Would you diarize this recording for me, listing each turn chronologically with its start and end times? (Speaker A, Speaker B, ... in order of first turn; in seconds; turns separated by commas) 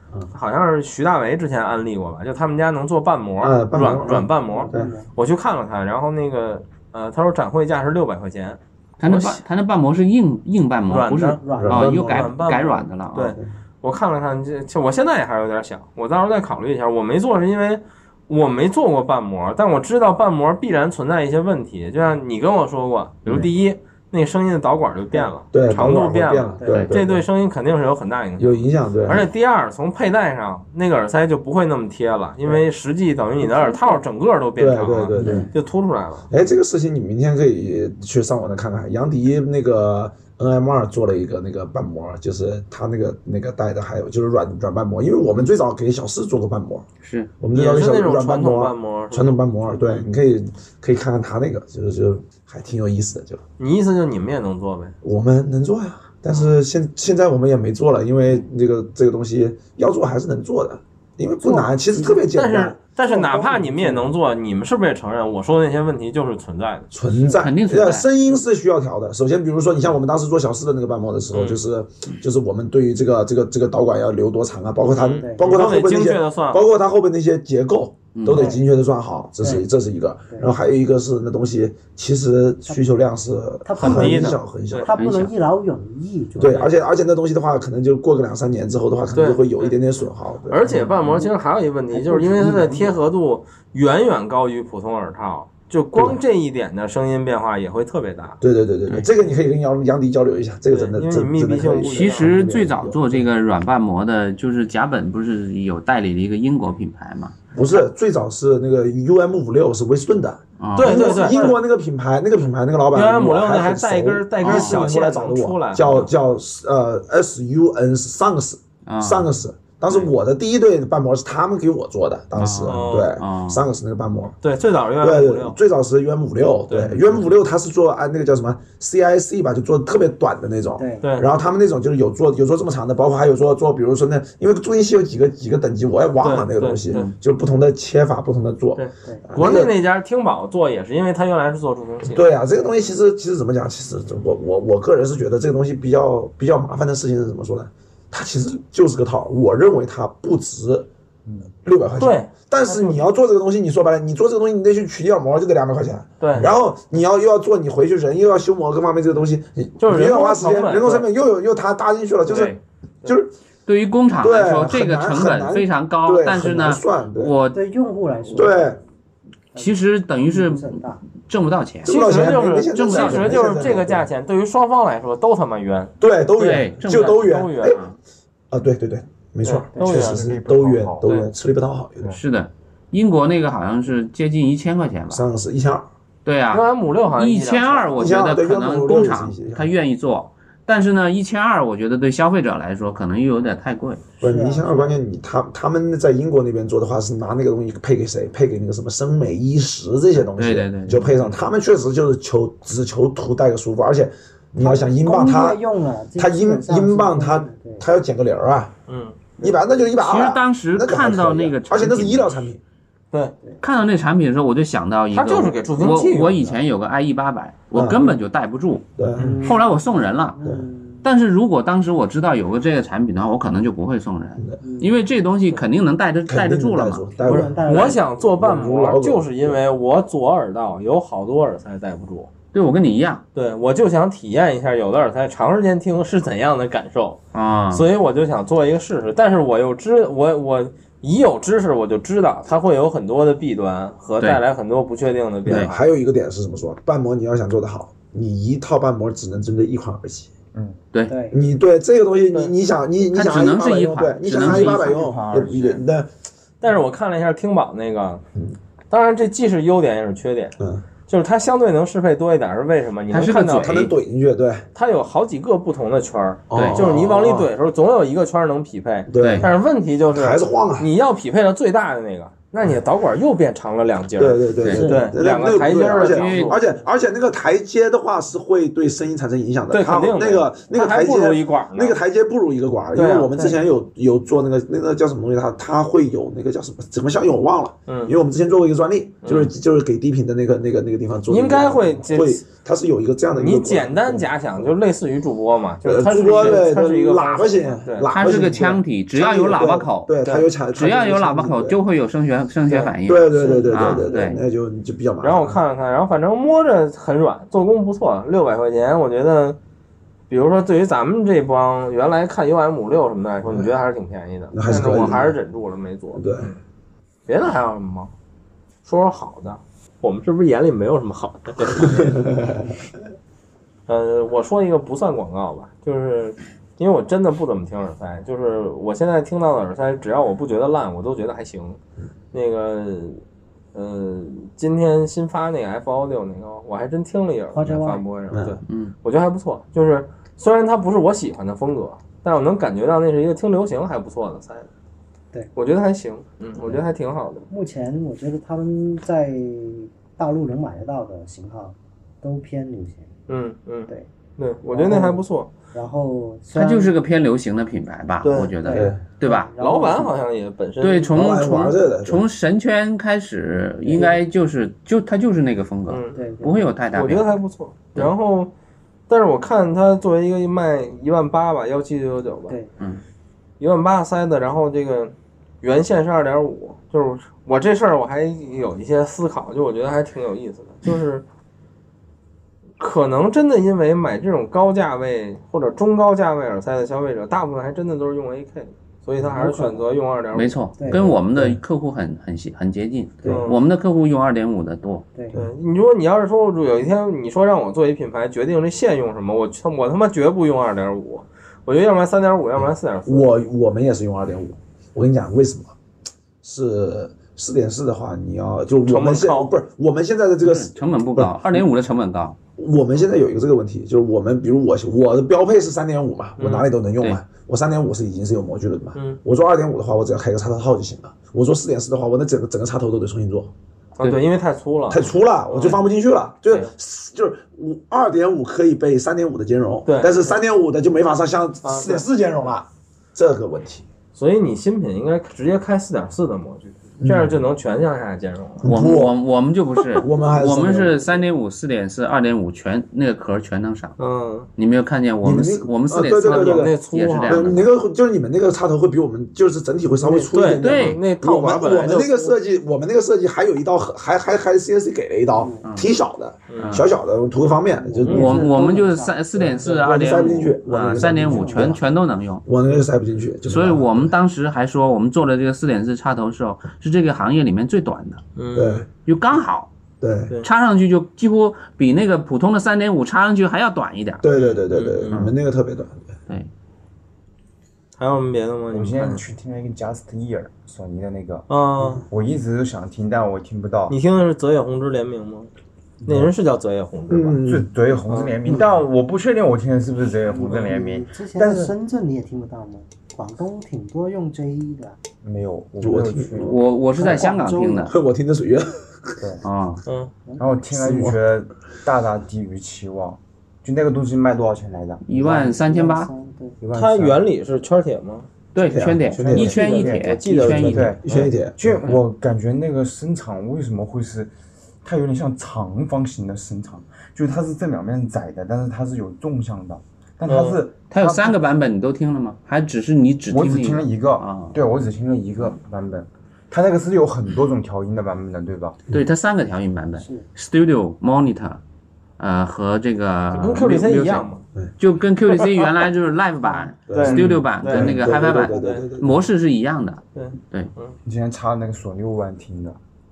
Speaker A: 0.3-9.4, Speaker B: 3.4-4.9, Speaker C: 4.4-5.1, Speaker D: 9.0-13.4, Speaker A: 10.9-36.3, Speaker C: 11.4-11.9, Speaker B: 11.6-12.3, Speaker B: 25.5-27.2, Speaker C: 26.6-26.9, Speaker B: 28.4-29.3, Speaker C: 33.4-34.0, Speaker B: 34.6-35.5, Speaker D: 35.2-35.5, Speaker E: 35.2-35.5, Speaker B: 36.3-46.9, Speaker D: 47.0-47.3, Speaker B: 47.4-53.4, Speaker A: 47.5-49.4, Speaker A: 53.6-54.9, Speaker B: 55.0-62.8, Speaker C: 61.4-62.2, Speaker A: 62.3-66.9, Speaker C: 63.0-64.1, Speaker B: 66.9-84.9, Speaker D: 67.1-68.1, Speaker A: 71.3-71.6, Speaker A: 74.9-76.6, Speaker C: 75.2-75.6, Speaker D: 78.1-78.5, Speaker C: 78.3-78.6, Speaker C: 83.6-86.7, Speaker A: 83.8-84.9, Speaker D: 84.9-85.3, Speaker B: 86.4-90.7, Speaker A: 89.1-89.8, Speaker A: 90.5-98.4, Speaker C: 91.9-92.9, Speaker B: 98.4-103.3, Speaker A: 100.7-102.3, Speaker D: 101.9-107.8, Speaker B: 107.5-124.4, Speaker D: 110.6-111.2, Speaker A: 110.8-111.6, Speaker A: 112.9-116.1, Speaker D: 114.4-114.8, Speaker D: 118.8-119.3, Speaker D: 122.3-123.6, Speaker A: 122.7-123.1, Speaker A: 124.4-125.5, Speaker B: 125.0-139.7, Speaker A: 126.7-127.0, Speaker D: 126.9-127.2, Speaker C: 130.8-131.1, Speaker A: 131.0-131.3, Speaker A: 136.2-137.1, Speaker A: 138.8-142.2, Speaker B: 142.0-150.9, Speaker C: 142.6-142.8, Speaker E: 151.2-151.5, Speaker B: 151.6-163.3, Speaker A: 152.0-153.0, Speaker A: 156.2-156.5, Speaker A: 159.8-161.1, Speaker A: 162.3-163.1, Speaker D: 163.7-167.6, Speaker B: 164.2-167.3, Speaker C: 167.5-168.8, Speaker B: 168.3-168.8, Speaker C: 169.5-171.0, Speaker D: 169.6-172.0, Speaker B: 171.8-174.1, Speaker A: 171.8-175.9, Speaker D: 172.7-173.5, Speaker B: 176.0-177.8, Speaker D: 176.4-177.9, Speaker A: 176.9-177.8, Speaker B: 178.5-182.1, Speaker A: 179.4-180.2, Speaker E: 179.8-181.1, Speaker D: 182.1-185.2, Speaker B: 185.1-185.9, Speaker D: 186.2-194.1, Speaker A: 186.5-188.1, Speaker B: 188.0-189.7, Speaker C: 194.2-195.0, Speaker B: 194.2-205.6, Speaker D: 200.2-201.2, Speaker C: 204.6-207.8, Speaker B: 206.2-208.7, Speaker A: 208.9-209.4, Speaker B: 209.4-212.6, Speaker D: 210.0-212.4, Speaker D: 213.6-218.8, Speaker A: 215.1-216.5, Speaker B: 217.7-218.1, Speaker B: 219.0-219.4, Speaker C: 219.2-221.1, Speaker D: 219.4-220.4, Speaker D: 221.0-227.2, Speaker C: 224.6-225.0, Speaker B: 226.3-229.6, Speaker C: 227.2-228.1, Speaker A: 227.3-232.3, Speaker D: 232.5-233.2, Speaker A: 233.3-237.2, Speaker D: 237.3-237.9, Speaker A: 237.7-245.8, Speaker D: 245.4-245.7, Speaker B: 245.4-250.3, Speaker C: 251.1-251.4, Speaker B: 251.3-256.1, Speaker D: 253.1-255.0, Speaker E: 254.3-255.8, Speaker A: 256.6-258.2, Speaker A: 258.9-260.6, Speaker B: 260.6-260.8, Speaker A: 261.1-263.7, Speaker D: 263.1-263.9, Speaker B: 263.5-264.7, Speaker A: 264.7-276.6, Speaker B: 266.5-267.5, Speaker D: 266.5-266.8, Speaker B: 269.1-269.5, Speaker D: 269.2-269.5, Speaker B: 270.1-270.9, Speaker B: 274.2-294.7, Speaker C: 274.6-275.1, Speaker D: 276.0-276.6, Speaker A: 279.7-282.0, Speaker A: 282.9-283.5, Speaker A: 287.9-288.1, Speaker A: 289.2-289.5, Speaker A: 291.3-292.4, Speaker A: 293.3-298.1, Speaker B: 295.8-301.8, Speaker D: 298.1-300.1, Speaker D: 300.7-304.4, Speaker A: 302.7-304.0, Speaker B: 303.0-305.6, Speaker A: 305.2-309.6, Speaker A: 310.3-316.5, Speaker B: 314.5-315.4, Speaker B: 316.1-316.5, Speaker A: 317.3-318.1, Speaker A: 318.8-322.3, Speaker B: 321.8-322.7, Speaker A: 323.9-331.8, Speaker A: 332.3-333.2, Speaker A: 333.7-344.7, Speaker C: 337.5-338.0, Speaker B: 338.3-338.6, Speaker D: 338.7-338.9, Speaker A: 345.5-347.4, Speaker C: 347.5-353.1, Speaker A: 353.3-355.5, Speaker C: 354.7-356.9, Speaker D: 356.5-359.5, Speaker A: 358.2-358.5, Speaker C: 358.6-360.1, Speaker B: 358.7-359.0, Speaker A: 359.6-361.1, Speaker D: 360.8-367.4, Speaker B: 361.1-362.2, Speaker C: 363.8-364.2, Speaker A: 365.9-366.2, Speaker C: 366.1-366.7, Speaker A: 366.9-368.5, Speaker A: 369.1-372.6, Speaker A: 373.6-381.2, Speaker A: 382.8-391.1, Speaker C: 389.3-389.9, Speaker D: 390.3-395.0, Speaker C: 390.8-391.1, Speaker B: 391.4-391.6, Speaker C: 393.2-393.5, Speaker A: 393.2-393.6, Speaker A: 395.3-403.4, Speaker B: 402.6-405.7, Speaker B: 406.4-411.6, Speaker A: 408.9-409.5, Speaker D: 410.4-412.4, Speaker B: 412.6-423.5, Speaker A: 416.4-416.7, Speaker A: 424.0-425.8, Speaker B: 424.9-433.9, Speaker A: 429.9-430.4, Speaker A: 431.6-432.1, Speaker A: 434.1-438.6, Speaker B: 437.0-437.4, Speaker B: 438.6-439.1, Speaker D: 438.6-443.9, Speaker B: 439.9-441.2, Speaker A: 444.0-444.5, Speaker D: 444.6-447.7, Speaker B: 445.2-458.3, Speaker A: 446.3-447.4, Speaker A: 450.1-452.4, Speaker D: 450.6-451.0, Speaker C: 455.3-455.7, Speaker D: 455.6-455.9, Speaker A: 456.5-456.8, Speaker D: 456.6-456.9, Speaker C: 457.8-459.7, Speaker A: 458.0-458.3, Speaker D: 458.1-462.4, Speaker B: 459.4-461.8, Speaker C: 461.0-461.8, Speaker B: 462.4-464.1, Speaker D: 463.5-468.2, Speaker A: 468.4-468.8, Speaker B: 468.5-468.9, Speaker D: 469.0-469.7, Speaker B: 470.0-470.3, Speaker D: 470.4-474.2, Speaker B: 474.2-476.1, Speaker A: 474.3-475.2, Speaker A: 478.0-479.2, Speaker E: 478.7-481.5, Speaker A: 481.5-482.0, Speaker E: 482.0-483.9, Speaker A: 483.9-485.5, Speaker E: 486.0-486.3, Speaker A: 486.1-487.4, Speaker B: 487.1-487.7, Speaker E: 487.4-491.7, Speaker A: 488.1-488.4, Speaker C: 490.2-495.0, Speaker E: 495.2-496.6, Speaker B: 495.8-496.5, Speaker D: 496.4-497.9, Speaker C: 497.0-497.9, Speaker B: 497.9-499.2, Speaker E: 499.2-499.4, Speaker D: 499.4-499.8, Speaker A: 499.9-500.1, Speaker E: 500.4-505.5, Speaker B: 500.7-501.2, Speaker D: 505.0-506.1, Speaker C: 505.3-506.6, Speaker E: 506.6-507.2, Speaker A: 506.7-508.3, Speaker D: 508.5-511.0, Speaker B: 508.6-509.6, Speaker E: 509.2-514.3, Speaker A: 509.4-510.9, Speaker B: 510.4-511.8, Speaker E: 514.8-521.4, Speaker A: 520.2-520.6, Speaker D: 520.9-524.6, Speaker E: 523.3-528.8, Speaker D: 528.9-531.6, Speaker C: 530.0-530.2, Speaker D: 532.2-534.3, Speaker A: 533.3-534.4, Speaker D: 534.8-540.7, Speaker B: 536.9-539.3, Speaker A: 536.9-538.8, Speaker E: 536.9-537.4, Speaker A: 540.1-540.9, Speaker E: 541.0-542.8